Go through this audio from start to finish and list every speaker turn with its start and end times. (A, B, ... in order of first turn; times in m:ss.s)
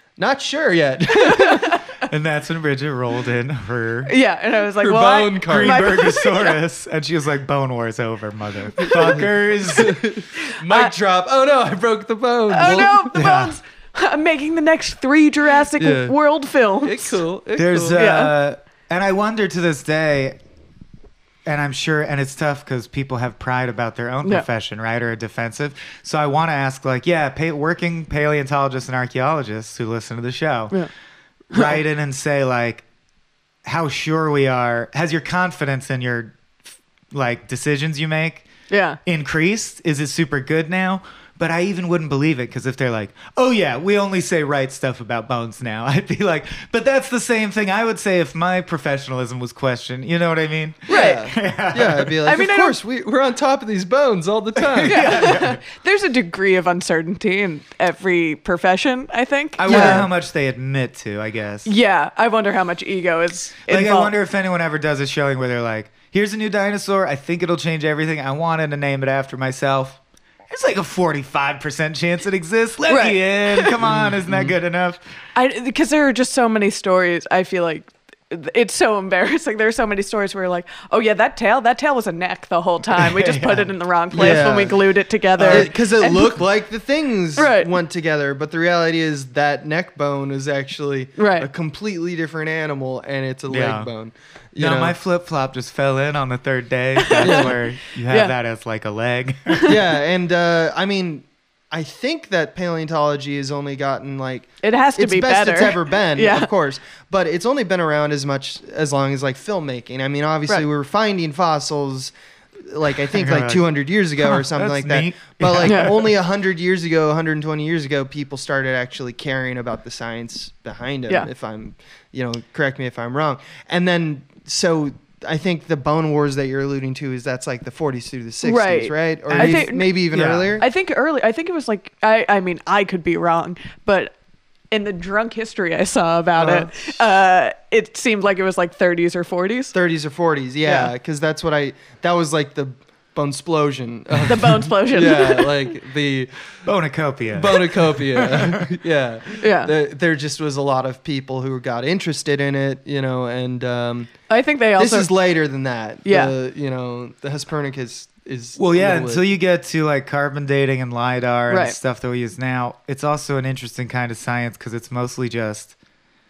0:00.2-0:01.8 A
0:01.3-0:01.8 B
0:02.0-0:04.1 C
0:04.0-0:06.6 B
0:04.8-0:05.9 A
0:05.4-0:10.0 C
0:08.8-0:13.1 A
0:08.9-0:09.2 B
0:10.6-0:10.9 B
0:12.5-0:17.2 B
0:13.1-0:13.6 C
0:15.8-0:16.1 A
0:16.8-0:18.0 A
0:17.6-0:20.4 C
0:18.0-0:18.3 B
0:21.4-0:30.8 C
0:31.5-0:32.8 C
0:31.5-0:31.8 B
0:33.6-0:38.5 C
0:38.7-0:39.0 B
0:39.0-0:52.2 C
0:50.9-0:55.1 A
0:50.9-0:51.2 B
0:52.2-0:52.8 B
0:54.6-0:55.6 C
0:54.8-1:00.1 B
0:59.6-1:01.7 C
0:59.7-1:00.1 A
1:01.6-1:04.1 B
1:03.7-1:15.0 C
1:12.9-1:13.8 B
1:13.8-1:14.5 A
1:15.3-1:26.4 B
1:23.0-1:23.7 C
1:24.1-1:24.8 A
1:25.4-1:25.7 C
1:25.4-1:34.9 A
1:27.4-1:27.7 B
1:31.2-1:31.5 B
1:33.5-1:33.9 C
1:34.6-1:39.7 C
1:37.0-1:38.3 B
1:37.2-1:37.5 A
1:39.6-1:52.1 A
1:44.6-1:46.5 B
1:52.6-2:10.6 A
1:53.1-1:56.1 C
2:08.4-2:14.1 B
2:09.3-2:10.6 C
2:14.7-2:19.7 B
2:16.4-2:16.9 A
2:19.7-2:26.4 A
2:20.6-2:20.9 B
2:24.3-2:25.7 B
2:26.6-2:28.6 C
2:27.3-2:34.1 A
2:29.4-2:29.7 B
2:34.3-2:35.1 B
2:34.8-2:39.2 A
2:36.0-2:36.3 B
2:38.6-2:45.7 C
2:41.5-2:41.8 B